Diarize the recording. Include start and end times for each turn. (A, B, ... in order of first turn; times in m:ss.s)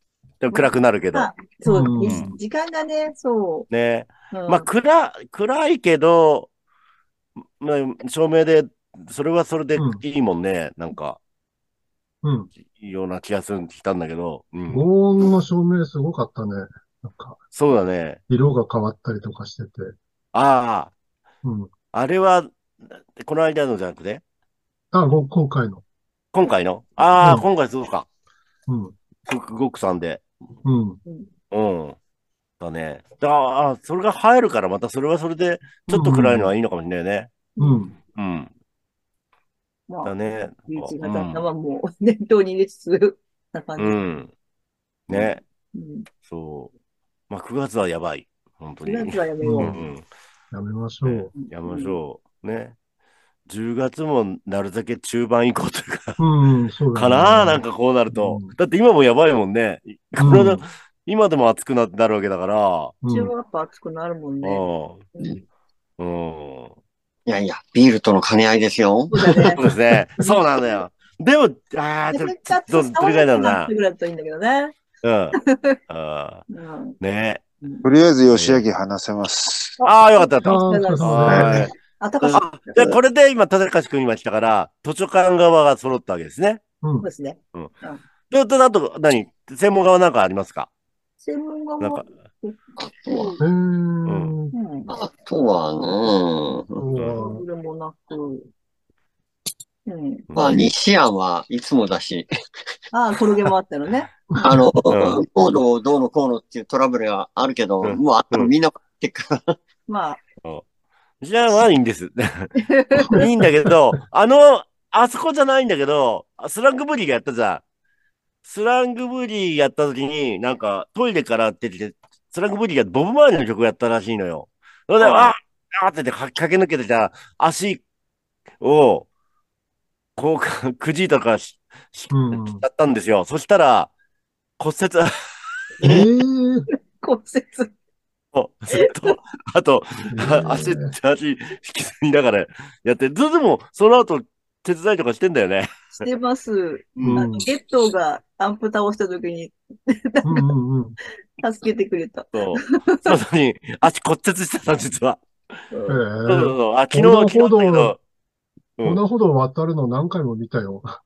0:00.4-0:01.3 A
0:00.5-0:03.7 B
0:01.6-0:02.4 C
0:02.0-0:02.3 A
0:03.7-0:06.5 A
0:04.3-0:04.7 B
0:07.6-0:11.2 A
0:09.8-0:10.0 C
0:12.2-0:12.5 C
0:12.6-0:14.9 A
0:14.7-0:17.4 C
0:17.5-0:18.2 A
0:18.3-0:20.0 C
0:20.3-0:20.9 A
0:21.4-0:21.7 C
0:21.9-0:22.5 A
0:23.2-0:24.2 A
0:24.9-0:25.8 C
0:26.3-0:28.1 A
0:27.2-0:27.5 C
0:28.7-0:28.9 C
0:29.2-0:30.2 A
0:30.6-0:31.0 C
0:31.0-0:31.3 B
0:31.5-0:32.0 A
0:32.6-0:37.3 A
0:35.9-0:36.5 C
0:37.6-0:37.8 B
0:37.6-0:38.0 C
0:38.1-0:38.5 A
0:39.9-0:44.0 B
0:40.0-0:41.4 A
0:43.8-0:44.3 A
0:45.1-0:45.4 A
0:45.1-0:46.1 B
0:46.2-0:46.7 A
0:47.3-0:50.0 A
0:48.8-0:49.8 B
0:49.4-0:49.8 C
0:50.5-0:51.3 C
0:51.0-0:52.8 A
0:51.4-0:52.0 B
0:53.5-0:56.2 A
0:56.2-0:58.6 C
0:56.9-1:03.0 A
1:00.2-1:00.6 C
1:03.0-1:03.3 C
1:03.1-1:04.6 B
1:04.4-1:05.0 A
1:06.0-1:06.7 A
1:07.2-1:09.2 D
1:09.1-1:09.6 B
1:09.6-1:13.7 A
1:10.2-1:10.8 B
1:12.1-1:14.8 B
1:15.0-1:15.4 A
1:15.4-1:15.8 B
1:15.9-1:16.5 A
1:16.5-1:17.0 B
1:17.0-1:17.4 A
1:17.8-1:19.8 E
1:18.3-1:18.6 A
1:19.8-1:21.7 A
1:19.8-1:22.8 B
1:20.4-1:21.7 C
1:21.2-1:21.6 E
1:22.2-1:23.0 D
1:22.3-1:26.6 A
1:26.8-1:27.1 C
1:27.0-1:28.0 B
1:28.3-1:30.7 A
1:31.2-1:33.4 B
1:32.8-1:33.4 D
1:33.4-1:34.6 C
1:34.1-1:34.3 A
1:34.5-1:34.9 B
1:34.9-1:36.8 D
1:36.8-1:37.5 C
1:37.1-1:38.5 B
1:39.9-1:40.2 B
1:40.3-1:40.7 A
1:40.3-1:42.3 D
1:42.9-1:44.1 B
1:44.3-1:44.6 C
1:44.4-1:49.6 D
1:44.9-1:45.2 A
1:47.8-1:48.5 A
1:49.9-1:50.2 B
1:51.2-1:57.6 A
1:52.6-1:53.3 B
1:58.4-2:07.8 A
2:08.6-2:09.1 A
2:10.2-2:13.9 A
2:12.1-2:12.6 C
2:14.6-2:15.1 A
2:15.8-2:16.6 C
2:17.0-2:17.7 B
2:18.3-2:25.7 A
2:18.7-2:19.2 B
2:20.1-2:21.0 C
2:26.0-2:30.5 B
2:27.0-2:27.2 A
2:27.0-2:27.5 C
2:30.2-2:31.0 C
2:31.4-2:33.1 B
2:32.3-2:35.2 A
2:35.9-2:38.0 C
2:36.2-2:38.0 A
2:38.8-2:41.0 C